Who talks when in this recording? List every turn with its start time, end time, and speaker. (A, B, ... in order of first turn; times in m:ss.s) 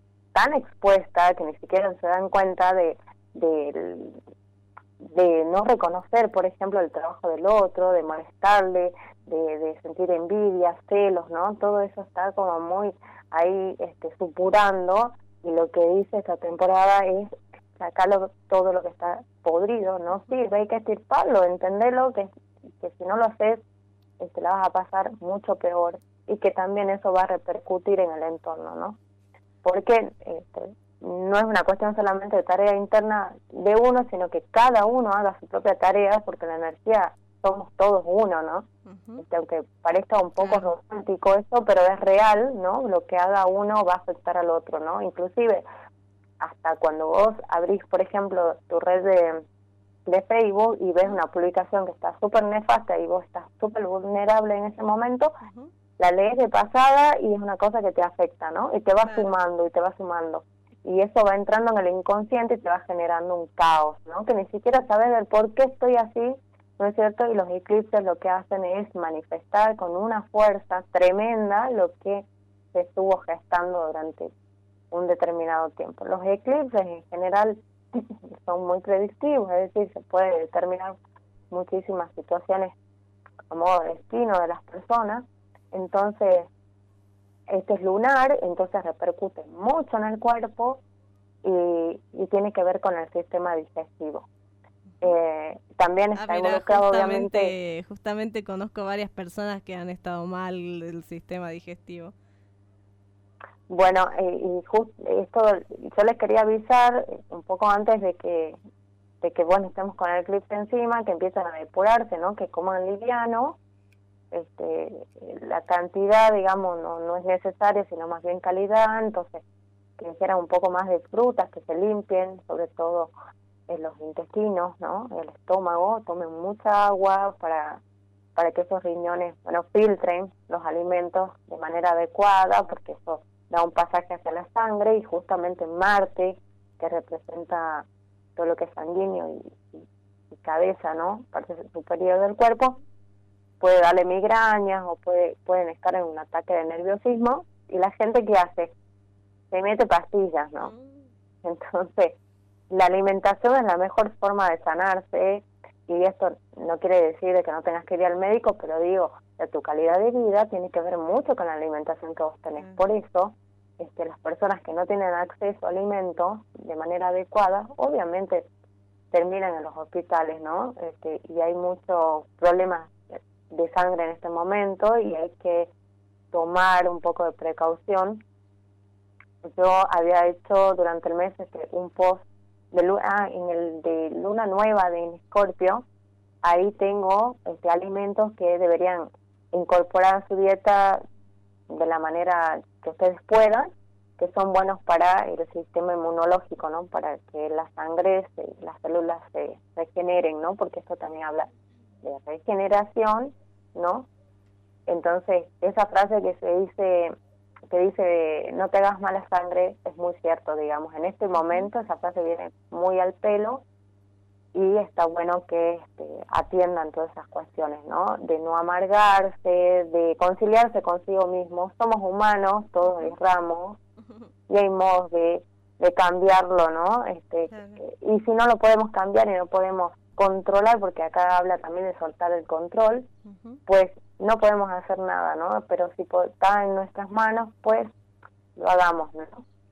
0:00.3-0:04.2 A
0:05.0-0:23.6 A
0:24.2-0:29.0 A
0:29.6-0:38.7 A
0:38.8-0:39.2 B
0:39.2-0:45.6 A
0:40.4-0:40.7 B
0:46.4-0:49.4 A
0:50.0-0:55.4 A
0:55.4-0:55.7 B
0:56.0-1:14.3 A
0:59.0-0:59.3 B
1:14.9-1:20.9 A
1:21.5-1:22.7 A
1:23.5-1:26.5 A
1:27.5-1:30.8 A
1:31.4-1:34.3 A
1:35.0-1:37.5 A
1:36.1-1:42.1 B
1:43.7-1:48.6 A
1:49.2-1:53.6 A
1:54.3-1:59.4 A
2:00.0-2:03.1 A
2:03.7-2:07.8 A
2:08.3-2:22.8 A
2:23.6-2:28.7 A
2:29.5-2:30.7 A
2:30.6-2:31.0 B
2:31.4-2:32.2 A
2:32.7-2:48.5 A
2:49.1-2:55.7 A
2:56.3-2:58.2 A
2:59.4-3:05.8 A
3:06.4-3:11.0 A
3:11.7-3:21.5 A
3:22.0-3:24.1 A
3:24.9-3:27.1 A
3:27.7-3:33.6 A
3:34.5-3:43.8 A
3:44.0-3:44.3 B
3:44.5-3:53.1 A
3:47.5-3:47.8 B
3:53.2-3:53.6 B
3:53.7-3:57.9 A
3:58.6-3:59.4 A